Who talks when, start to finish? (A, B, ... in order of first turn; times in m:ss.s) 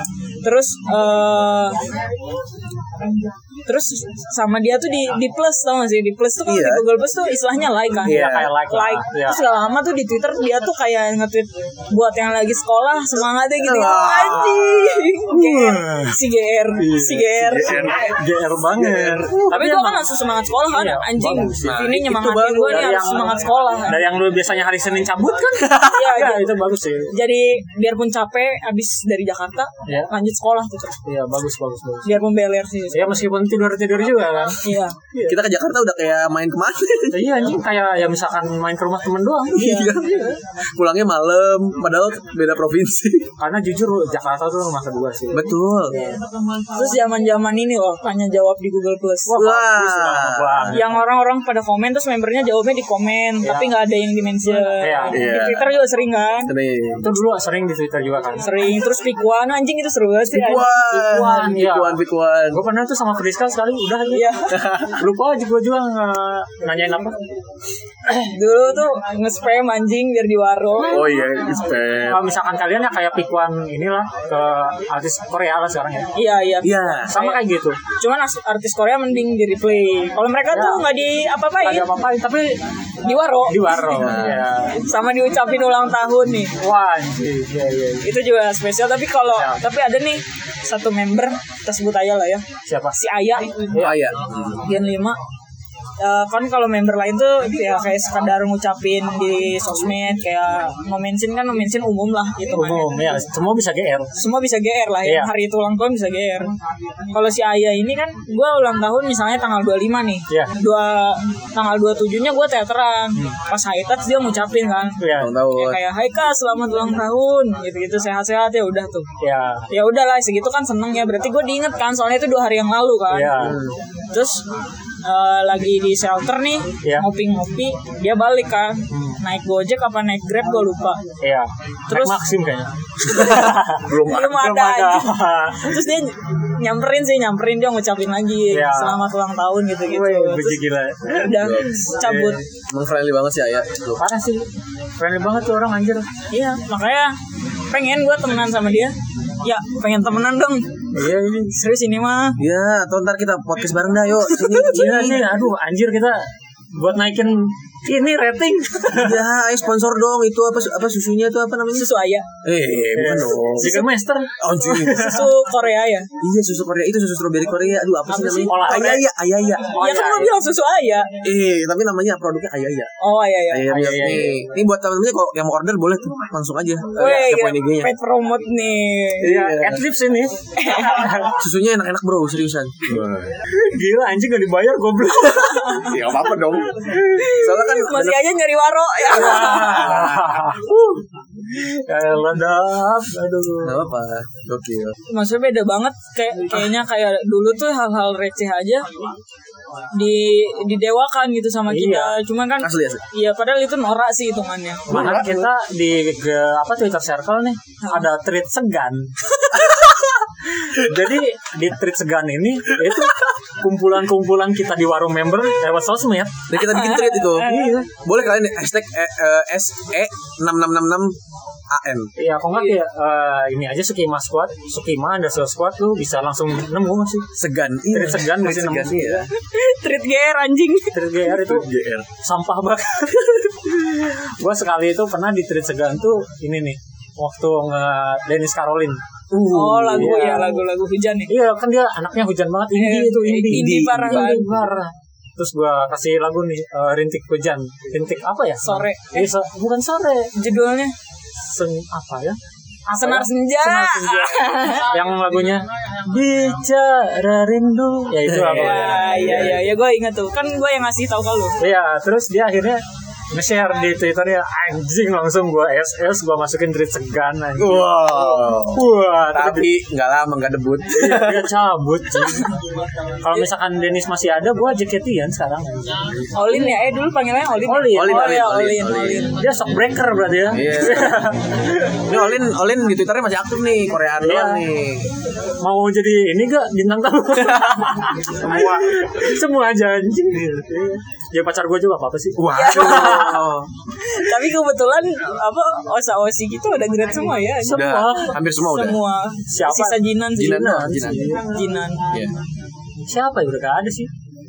0:00.4-0:01.8 A
0:03.7-0:18.1 A
0:06.5-0:06.9 B
0:08.0-0:09.4 C
0:08.0-0:08.5 B
0:13.6-0:15.0 B
0:15.3-0:16.2 C
0:16.8-0:20.1 C
0:17.4-0:18.2 B
0:18.8-0:19.4 B
0:19.5-0:24.1 A
0:20.7-0:21.8 C
0:21.6-0:23.1 B
0:22.7-0:27.1 C
0:25.6-0:26.0 B
0:25.8-0:26.6 A
0:27.1-0:31.0 A
0:29.8-0:30.1 C
0:31.0-0:32.2 C
0:32.0-0:33.1 A
0:32.9-0:35.4 C
0:34.6-0:35.0 A
0:35.3-0:37.3 B
0:37.1-0:39.9 C
0:39.5-0:43.3 B
0:39.6-0:40.0 A
0:43.4-0:45.5 C
0:45.3-0:46.0 B
0:46.7-0:49.4 A
0:49.3-0:51.0 C
0:49.4-0:50.8 B
0:50.7-0:56.5 A
0:53.4-0:53.7 C
0:54.7-0:55.2 C
0:55.1-0:55.7 B
0:56.5-0:57.1 B
0:57.0-0:58.5 C
0:58.4-1:00.8 A
1:00.3-1:02.6 B
1:00.9-1:04.4 C
1:04.1-1:04.5 A
1:04.5-1:05.0 B
1:05.0-1:07.2 C
1:08.3-1:11.2 A
1:10.8-1:11.3 C
1:10.9-1:12.2 B
1:12.1-1:16.1 C
1:16.2-1:17.4 A
1:16.6-1:17.2 B
1:17.1-1:17.8 C
1:18.0-1:21.9 A
1:20.5-1:20.9 C
1:21.6-1:22.6 C
1:23.0-1:26.5 A
1:23.5-1:24.8 C
1:24.0-1:24.5 B
1:26.6-1:28.1 C
1:28.0-1:33.8 A
1:29.3-1:29.6 C
1:32.7-1:33.0 C
1:33.7-1:34.0 C
1:33.8-1:34.6 B
1:34.6-1:35.2 A
1:36.0-1:43.2 A
1:42.5-1:44.1 C
1:44.2-1:46.5 A
1:45.0-1:45.3 C
1:47.1-1:59.1 A
1:55.0-1:55.4 C
1:55.2-1:55.8 B
1:59.2-1:59.7 C
1:59.7-2:03.6 A
2:03.1-2:03.6 C
2:03.4-2:03.8 B
2:04.1-2:04.4 A
2:05.0-2:11.0 A
2:08.9-2:09.2 C
2:11.2-2:15.8 C
2:11.9-2:12.2 A
2:13.1-2:14.4 B
2:14.0-2:22.4 A
2:18.5-2:19.0 C
2:19.9-2:21.3 C
2:21.2-2:21.9 B
2:22.0-2:22.4 C
2:22.7-2:24.0 B
2:24.0-2:24.5 C
2:25.0-2:26.1 C
2:26.3-2:27.2 A
2:27.7-2:30.7 A
2:30.9-2:31.6 C
2:31.5-2:32.4 A
2:32.4-2:35.3 B
2:34.5-2:39.2 C
2:38.9-2:41.9 B
2:41.7-2:42.3 A
2:42.4-2:43.8 B
2:42.9-2:45.4 C
2:43.6-2:43.9 A
2:44.4-2:45.2 B
2:44.8-2:46.1 A
2:46.2-2:49.8 B
2:48.1-2:49.0 A
2:48.5-2:49.0 C
2:49.7-2:50.4 C
2:49.7-2:51.1 A
2:51.2-2:52.9 B
2:53.0-2:53.8 A
2:53.5-2:57.9 B
2:53.7-2:54.4 C
2:57.0-2:59.4 A
2:59.2-3:01.4 C
2:59.2-2:59.8 B
3:00.6-3:01.1 A
3:01.4-3:03.3 B
3:03.4-3:05.9 C
3:05.8-3:08.3 B
3:07.0-3:10.0 A
3:09.1-3:13.8 C
3:09.6-3:10.3 B
3:13.6-3:15.0 B
3:15.1-3:18.9 A
3:19.9-3:25.2 A
3:21.7-3:22.2 C
3:22.6-3:23.0 B
3:24.9-3:29.7 C
3:24.9-3:25.5 B
3:30.6-3:36.4 C
3:36.5-3:41.2 B
3:36.6-3:37.7 A
3:37.4-3:37.9 C
3:41.7-3:42.1 B
3:42.2-3:47.3 C
3:47.4-3:49.3 B
3:47.9-3:49.3 C
3:49.3-3:51.0 A
3:50.9-3:51.7 C
3:51.3-3:52.1 B
3:52.2-3:59.0 C
3:59.3-4:00.5 B
3:59.5-4:01.3 A
3:59.9-4:00.6 C
4:01.3-4:10.3 C
4:02.7-4:04.5 A
4:03.5-4:04.5 B
4:08.6-4:09.3 A
4:10.4-4:10.9 A
4:11.4-4:12.4 C
4:12.9-4:19.4 C
4:12.9-4:14.9 A
4:18.2-4:19.7 B
4:18.5-4:21.6 A
4:21.6-4:29.7 C
4:27.6-4:31.5 B
4:30.9-4:32.6 C
4:33.2-4:36.1 C
4:36.3-4:39.3 A
4:37.6-4:38.4 C
4:37.9-4:39.3 B
4:39.3-4:42.2 C
4:40.5-4:41.2 B
4:42.1-4:45.1 B
4:44.2-4:44.6 C
4:45.6-4:53.5 C
4:52.4-4:53.7 B
4:52.5-4:53.4 A
4:54.0-4:57.9 A
4:57.6-4:58.4 C
4:57.7-4:59.0 B
4:58.5-5:00.8 A
4:59.5-5:01.5 C
5:00.4-5:01.3 B
5:01.3-5:02.1 A
5:03.1-5:04.1 C